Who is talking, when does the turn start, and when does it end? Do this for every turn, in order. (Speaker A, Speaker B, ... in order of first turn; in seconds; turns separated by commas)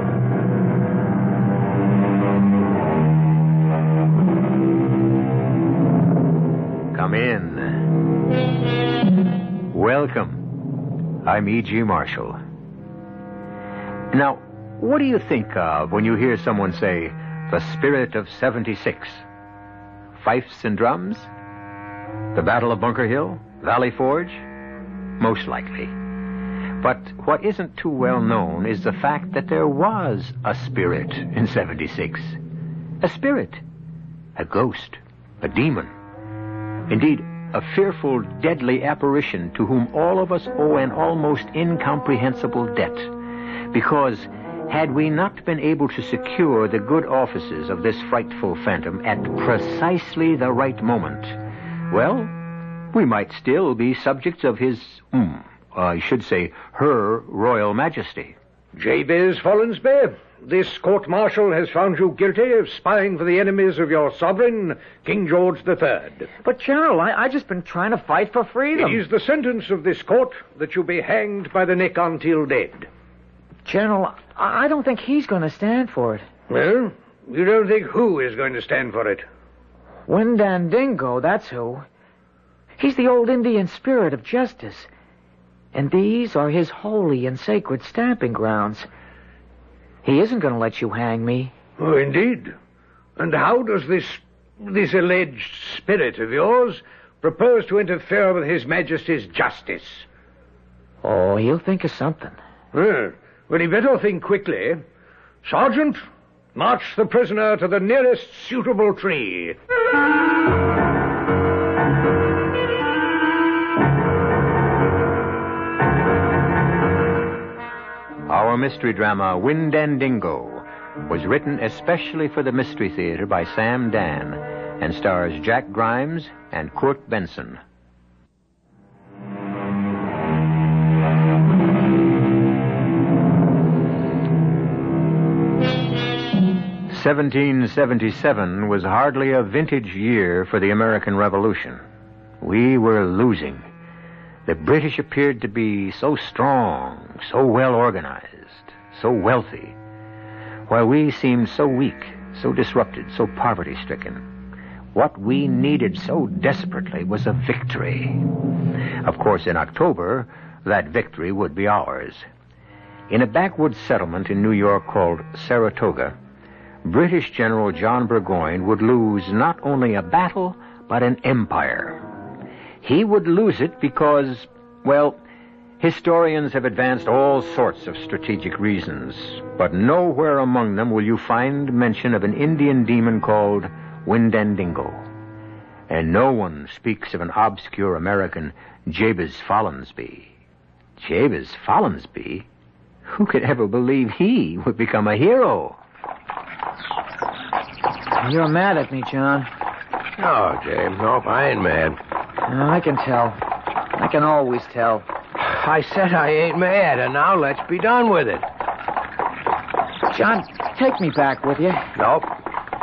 Speaker A: 6.9-7.9, Speaker A: 9.7-10.5, Speaker A: 11.2-12.4, Speaker A: 14.1-19.2, Speaker A: 20.1-21.3, Speaker A: 22.3-24.4, Speaker A: 25.2-25.9, Speaker A: 26.8-32.4, Speaker A: 33.0-33.6, Speaker A: 34.4-35.9, Speaker A: 36.9-43.2, Speaker A: 43.7-51.4, Speaker A: 51.9-52.4, Speaker A: 52.9-58.4, Speaker B: 58.8-66.3, Speaker C: 66.4-69.0, Speaker B: 68.8-72.9, Speaker C: 73.7-76.2, Speaker B: 76.5-79.2, Speaker C: 80.1-81.8, Speaker C: 82.8-84.9, Speaker C: 85.7-88.9, Speaker C: 90.0-91.5, Speaker B: 91.8-92.5, Speaker B: 93.2-100.0, Speaker C: 101.0-102.4, Speaker B: 102.7-104.8, Speaker B: 105.4-106.0, Speaker B: 106.5-109.5, Speaker A: 118.3-127.6, Speaker A: 136.9-141.8, Speaker A: 142.4-143.6, Speaker A: 144.4-149.7, Speaker A: 150.7-154.2, Speaker A: 154.9-158.3, Speaker A: 159.0-162.2, Speaker A: 163.1-166.1, Speaker A: 166.8-172.0, Speaker A: 172.8-175.2, Speaker A: 175.8-185.1, Speaker A: 185.9-190.3, Speaker A: 191.0-192.5, Speaker A: 193.1-195.8, Speaker C: 198.2-199.5, Speaker D: 200.2-202.0, Speaker C: 202.5-203.4, Speaker C: 203.9-205.0, Speaker D: 205.4-208.4, Speaker C: 210.1-211.9, Speaker D: 211.9-212.3